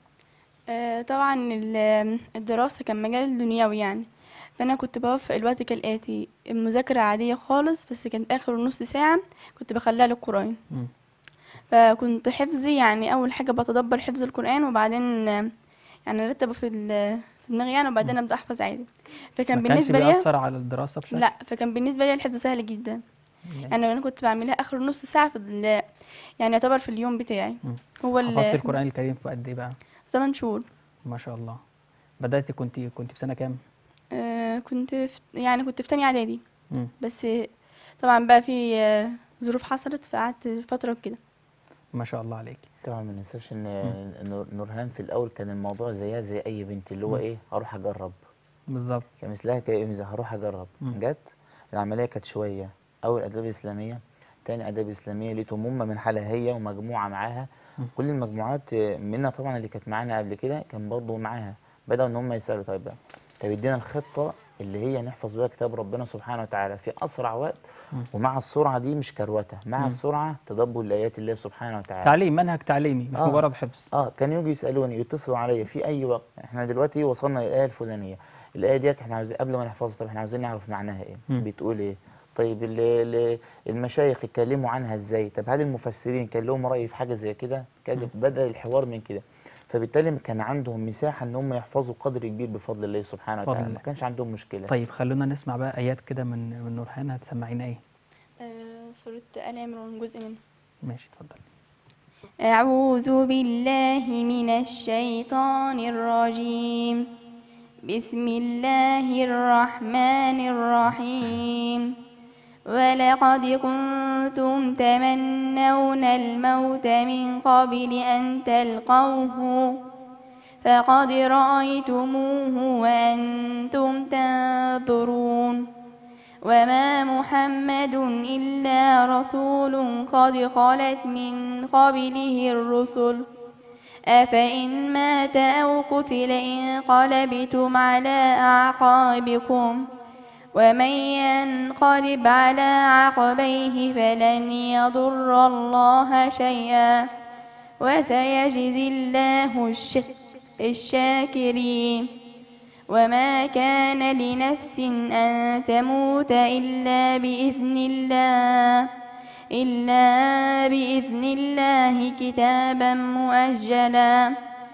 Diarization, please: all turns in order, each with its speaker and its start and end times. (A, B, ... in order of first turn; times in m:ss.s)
0:00.7-0:10.6 A
0:11.7-0:15.5 A
0:16.1-0:20.2 A
0:19.5-0:21.2 B
0:21.1-0:23.0 A
0:23.7-0:25.8 A
0:26.4-0:28.7 A
0:27.6-0:29.8 B
0:30.1-0:30.6 A
0:31.1-0:31.6 B
0:32.2-0:33.6 B
0:34.2-0:36.4 A
0:37.0-0:37.5 A
0:38.0-0:41.2 A
0:42.0-0:42.6 B
0:42.8-0:48.2 C
0:48.7-0:49.1 B
0:49.2-1:07.6 C
1:08.1-1:12.1 C
1:12.0-1:13.9 B
1:13.9-1:34.7 C
1:33.5-1:33.8 B
1:34.7-1:37.8 B
1:38.4-1:40.4 A
1:40.8-1:41.4 B
1:42.4-1:47.1 A
1:47.9-1:51.9 A
1:52.7-1:59.7 A
2:00.6-2:05.7 A
2:06.4-2:13.2 A
2:14.1-2:19.8 A
2:20.6-2:27.0 A
2:27.8-2:30.1 A
2:30.6-2:32.1 A
2:32.9-2:38.9 A
2:39.5-2:44.3 A